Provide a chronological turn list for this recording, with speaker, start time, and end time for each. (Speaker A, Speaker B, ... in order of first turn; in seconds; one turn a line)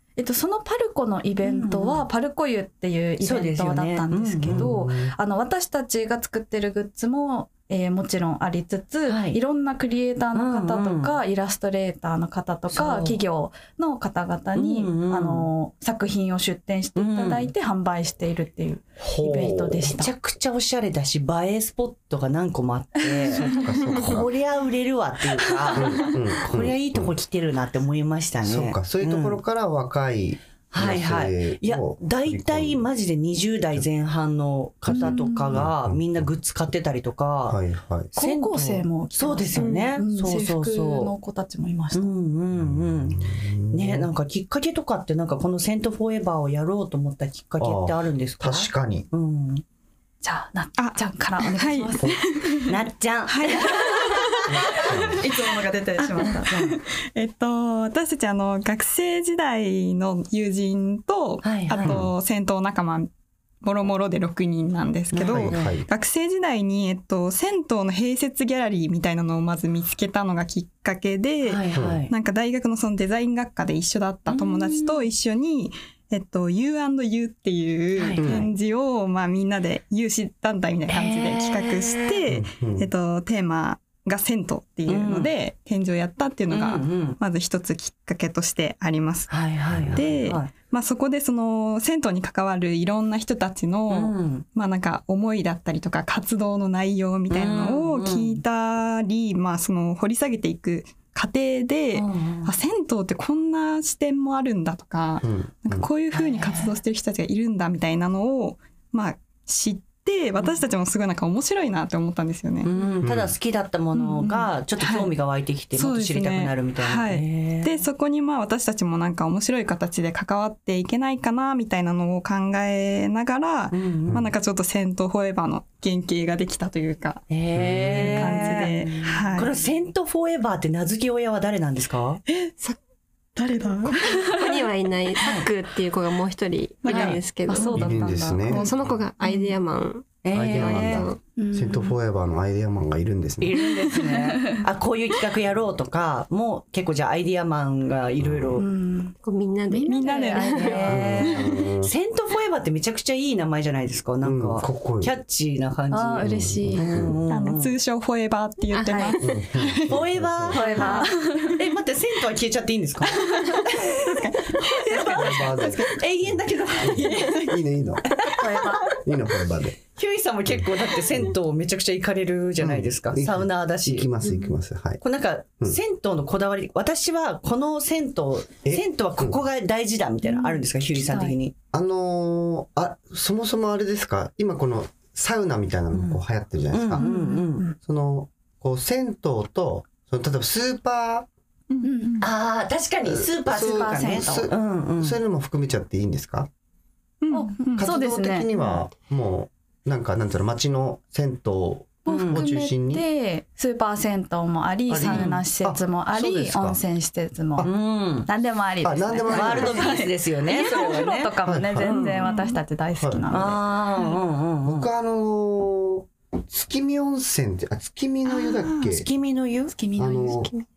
Speaker A: 0.2-20.1
Speaker B: 1.4-2.0
Speaker B: 3.2-4.7
Speaker C: 4.4-5.1
Speaker B: 9.1-9.4
Speaker B: 10.3-11.2
Speaker B: 12.7-13.2
Speaker B: 14.5-15.5
Speaker B: 17.0-17.5
Speaker C: 19.0-19.9
Speaker B: 19.9-29.4
Speaker C: 23.3-24.3
Speaker A: 25.7-26.1
Speaker C: 25.7-27.1
Speaker C: 28.4-32.9
Speaker B: 30.7-37.6
Speaker A: 34.9-35.6
Speaker C: 34.9-36.7
Speaker C: 37.5-38.1
Speaker B: 38.1-41.1
Speaker A: 38.1-42.1
Speaker D: 39.6-39.9
Speaker B: 41.9-49.6
Speaker C: 42.5-44.1
Speaker C: 47.6-49.1
Speaker A: 50.2-52.6
Speaker E: 50.8-52.7
Speaker B: 52.6-54.2
Speaker E: 53.3-54.5
Speaker C: 54.5-55.2
Speaker A: 54.7-56.5
Speaker E: 56.2-63.1
Speaker B: 56.3-56.8
Speaker B: 61.4-62.1
Speaker C: 61.8-62.1
Speaker E: 63.6-112.7
Speaker B: 65.1-65.7
Speaker C: 65.2-65.9
Speaker B: 71.4-72.1
Speaker C: 71.7-72.0
Speaker B: 74.3-75.1
Speaker B: 78.0-78.4
Speaker C: 78.2-78.5
Speaker B: 80.9-82.2
Speaker C: 82.3-82.9
Speaker B: 84.9-85.3
Speaker B: 86.5-87.2
Speaker B: 89.3-90.5
Speaker C: 89.7-90.3
Speaker B: 93.9-94.5
Speaker B: 97.3-98.4
Speaker B: 101.9-102.5
Speaker C: 105.2-105.9
Speaker B: 106.1-106.8
Speaker B: 112.6-117.9
Speaker C: 113.0-113.3
Speaker E: 114.0-115.1
Speaker E: 115.7-127.2
Speaker B: 123.7-124.2
Speaker B: 127.3-132.2
Speaker C: 127.5-128.2
Speaker E: 127.9-129.5
Speaker E: 132.3-132.5
Speaker E: 133.3-134.3
Speaker D: 134.1-141.2
Speaker B: 135.2-135.5
Speaker E: 136.8-138.7
Speaker B: 136.9-137.2
Speaker A: 137.1-137.8
Speaker C: 137.7-138.7
Speaker A: 139.2-139.5
Speaker B: 140.2-141.1
Speaker C: 140.3-143.6
Speaker A: 141.4-142.0
Speaker B: 143.4-148.6
Speaker C: 148.2-148.6
Speaker A: 148.6-149.2
Speaker D: 149.2-150.8
Speaker A: 149.7-151.1
Speaker E: 149.8-150.7
Speaker B: 150.6-157.7
Speaker C: 150.9-151.9
Speaker C: 154.2-155.2
Speaker A: 155.9-156.8
Speaker C: 156.2-157.2
Speaker E: 157.3-160.0
Speaker D: 158.7-159.2
Speaker A: 158.9-159.2
Speaker C: 159.2-160.7
Speaker B: 159.9-164.2
Speaker A: 160.5-161.6
Speaker E: 163.4-166.0
Speaker B: 164.8-167.6
Speaker C: 165.1-168.0
Speaker B: 168.1-169.0
Speaker A: 168.4-168.9
Speaker C: 168.8-169.8
Speaker B: 169.9-174.1
Speaker C: 172.6-175.0
Speaker B: 175.0-181.5
Speaker C: 178.6-179.4
Speaker A: 180.2-181.4
Speaker C: 181.7-187.0
Speaker B: 185.9-187.7
Speaker A: 187.0-187.7
Speaker C: 187.8-191.3
Speaker E: 191.7-192.2
Speaker A: 191.8-192.2
Speaker B: 192.2-195.2
Speaker C: 193.0-196.5
Speaker A: 193.6-194.5
Speaker E: 197.2-197.8
Speaker A: 197.3-198.5
Speaker C: 197.8-203.0
Speaker A: 202.1-207.7
Speaker B: 202.1-202.4
Speaker C: 204.9-206.8
Speaker B: 205.1-205.4
Speaker B: 207.6-208.3
Speaker A: 208.2-213.6
Speaker C: 208.8-209.9
Speaker B: 209.3-211.3
Speaker C: 211.4-212.1
Speaker B: 211.8-212.2
Speaker E: 212.2-212.6
Speaker C: 212.9-213.3
Speaker B: 213.3-214.9
Speaker C: 214.6-219.1
Speaker E: 218.4-218.8
Speaker B: 218.8-219.7
Speaker A: 219.7-220.4
Speaker C: 219.9-220.5